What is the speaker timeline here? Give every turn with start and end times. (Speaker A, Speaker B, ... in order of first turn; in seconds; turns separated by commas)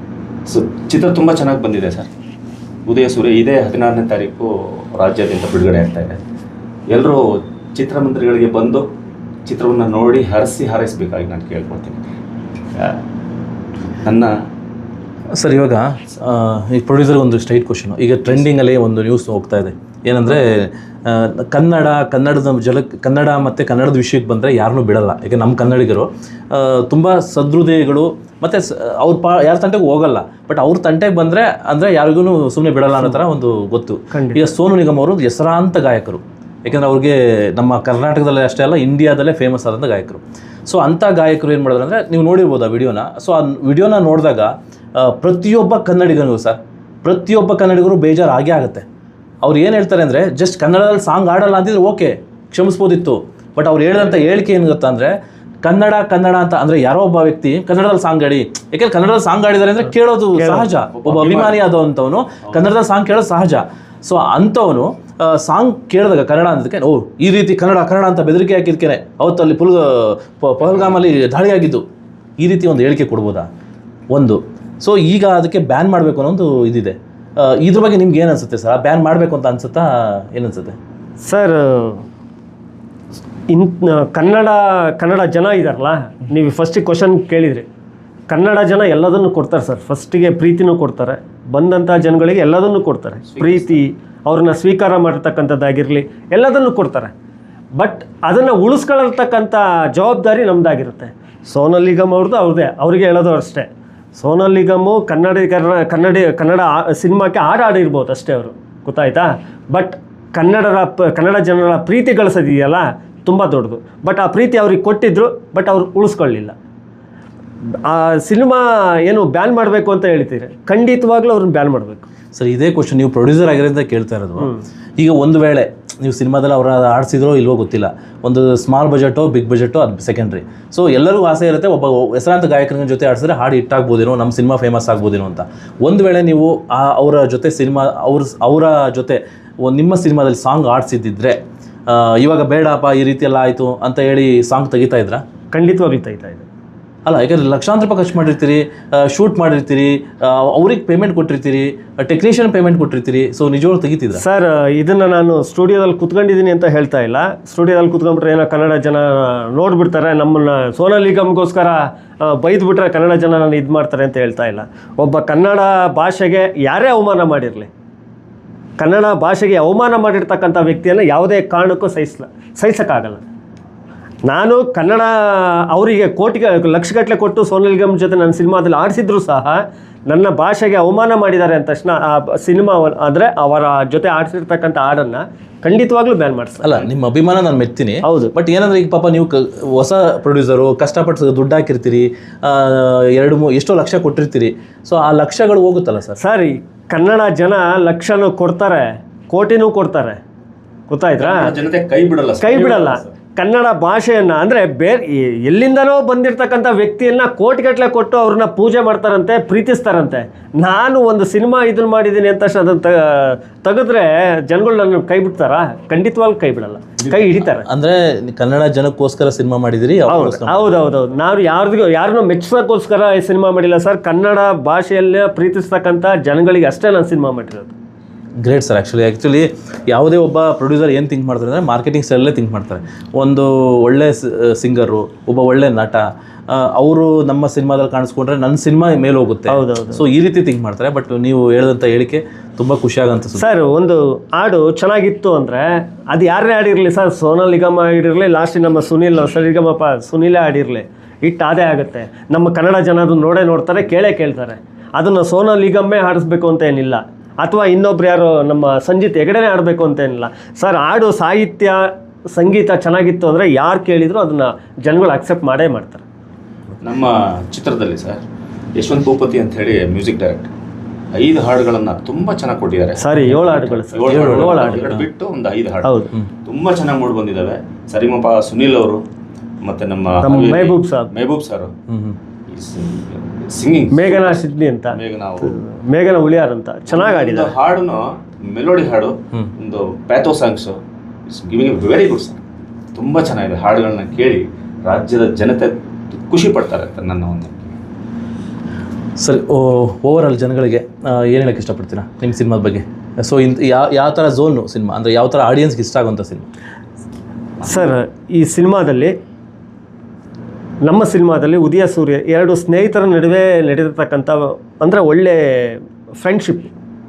Speaker A: 0.5-2.1, Speaker A: 2.9-6.2, Speaker A: 6.9-8.9, Speaker A: 9.5-12.0, Speaker A: 14.0-14.3, Speaker B: 15.3-48.8, Speaker C: 34.1-34.4, Speaker B: 49.4-71.8, Speaker C: 60.4-60.7, Speaker A: 60.9-61.6, Speaker B: 72.4-73.5, Speaker B: 74.1-80.8, Speaker C: 81.2-82.0, Speaker C: 83.5-87.7, Speaker C: 88.3-97.1, Speaker A: 93.3-93.8, Speaker C: 97.8-116.5, Speaker C: 117.8-122.1, Speaker B: 122.3-145.2, Speaker C: 145.5-146.5, Speaker B: 147.0-154.2, Speaker C: 154.2-167.7, Speaker C: 168.8-173.2, Speaker C: 174.3-186.8, Speaker B: 186.6-196.2, Speaker C: 188.0-188.3, Speaker C: 196.2-200.2, Speaker C: 200.9-201.5, Speaker A: 201.2-203.1, Speaker C: 202.4-217.7, Speaker B: 217.0-220.8, Speaker C: 220.1-227.7, Speaker B: 228.4-243.5, Speaker C: 239.5-240.0, Speaker C: 243.4-266.0, Speaker A: 266.8-268.2, Speaker A: 268.8-270.5, Speaker A: 271.1-279.0, Speaker C: 273.0-274.9, Speaker B: 274.0-275.0, Speaker C: 275.8-276.1, Speaker A: 279.6-281.7, Speaker C: 280.2-281.1, Speaker B: 281.9-282.2, Speaker A: 282.5-285.6, Speaker C: 283.9-287.5, Speaker A: 286.9-292.4, Speaker A: 292.9-297.8, Speaker B: 299.2-306.5, Speaker C: 307.6-309.1, Speaker C: 310.8-316.7